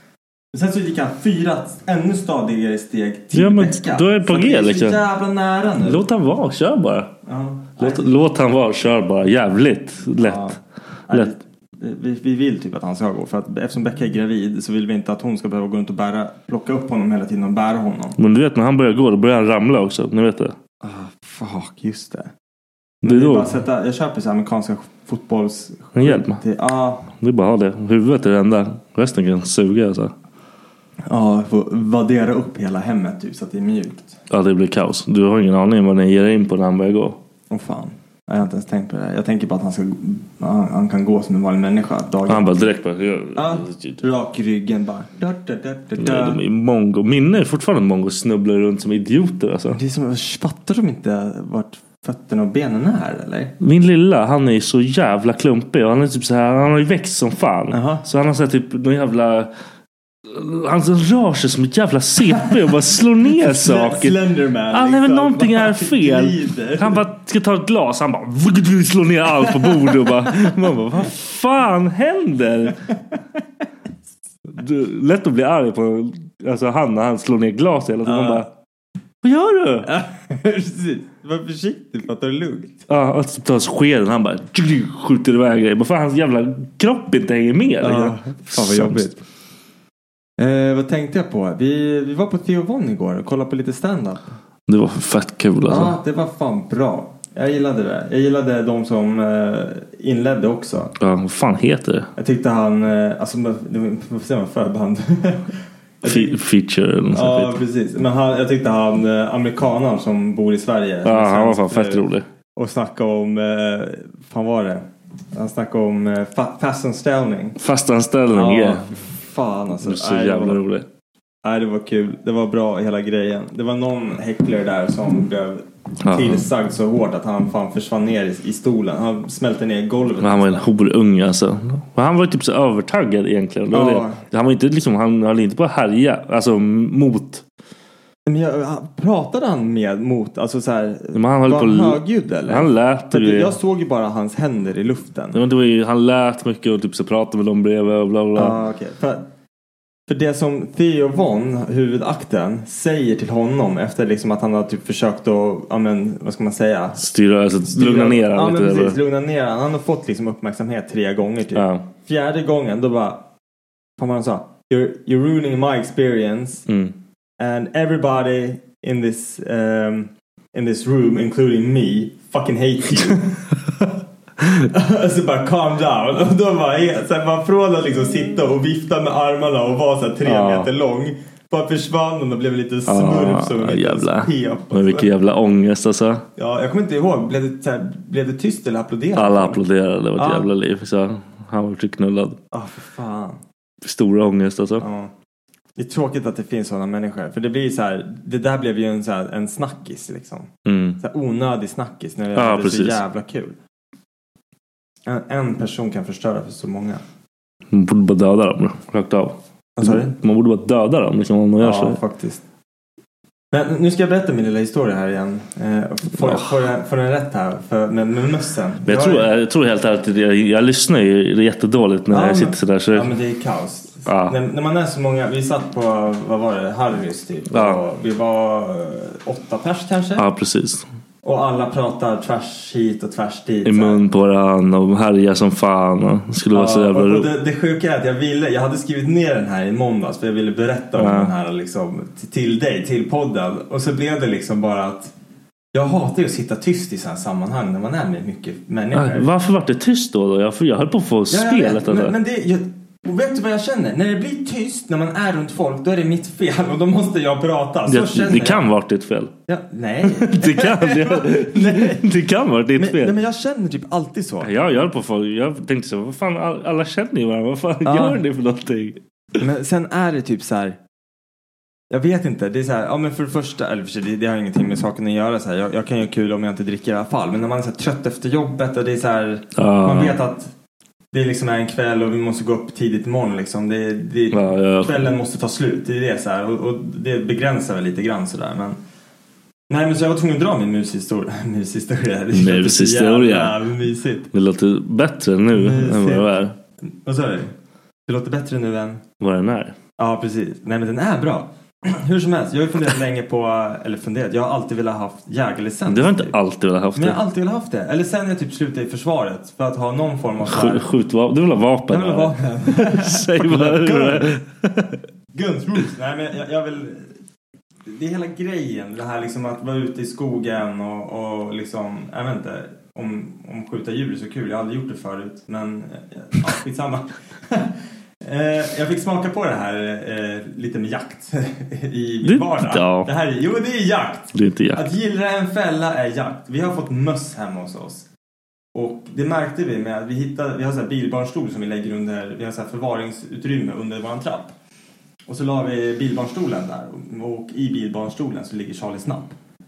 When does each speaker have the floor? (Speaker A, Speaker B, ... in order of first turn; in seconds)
Speaker A: 0.5-6.0, 7.2-8.1, 10.2-18.2, 20.8-22.3, 23.0-27.1, 31.0-34.2, 37.5-42.7, 43.3-46.4, 49.7-53.5, 57.7-58.0, 63.3-67.0, 69.6-70.5, 78.0-78.5, 79.8-82.9, 87.8-89.2, 90.4-94.3, 95.7-100.9, 102.2-106.4, 107.1-112.0, 112.5-117.6, 118.3-120.6, 121.4-130.6, 133.7-134.2, 138.2-145.4, 148.3-149.2, 150.1-157.1, 157.6-163.2, 164.0-166.7, 167.4-173.5, 174.7-185.1, 186.4-189.6, 190.2-190.5, 192.5-193.4, 194.8-195.1, 195.8-203.6, 205.1-207.0, 209.8-210.1, 211.6-212.4, 213.5-219.3, 222.1-230.3, 231.2-234.0, 236.5-245.1, 245.7-249.3, 251.3-258.7, 259.5-262.1, 262.7-264.5, 267.8-268.2, 269.4-270.8, 271.9-280.5, 281.1-288.8, 289.7-294.3, 295.5-296.3, 297.0-297.5, 298.1-299.0, 300.0-306.4, 306.9-310.9, 311.9-314.4, 315.3-317.2, 317.9-338.1, 338.7-344.5, 345.3-349.3
Speaker B: 3.3-5.0, 5.8-7.1, 7.8-10.6, 11.1-11.3, 18.2-20.5, 23.0-23.5, 25.9-26.4, 27.1-30.1, 34.3-37.2, 42.3-44.0, 46.0-49.8, 53.6-59.5, 60.2-72.8, 74.5-78.5, 79.2-79.9, 82.9-89.1, 94.7-95.9, 101.0-102.1, 106.0-107.6, 111.0-112.3, 117.6-118.9, 119.8-120.9, 126.0-126.5, 130.2-137.4, 141.1-143.6, 145.3-148.6, 157.0-159.0, 161.5-161.8, 166.7-166.9, 180.2-180.7, 182.9-186.2, 189.1-192.4, 193.8-194.8, 200.7-201.0, 202.3-203.0, 207.7-212.0, 216.2-216.5, 218.8-223.1, 224.1-224.4, 227.5-227.8, 230.2-230.8, 233.6-237.3, 240.9-241.3, 248.9-252.1, 257.9-259.3, 260.0-263.2, 264.4-269.0, 279.6-280.2, 284.3-285.1, 292.3-293.6, 294.3-296.6, 299.2-299.8, 305.9-307.2, 310.4-315.0, 332.2-333.1, 334.3-334.9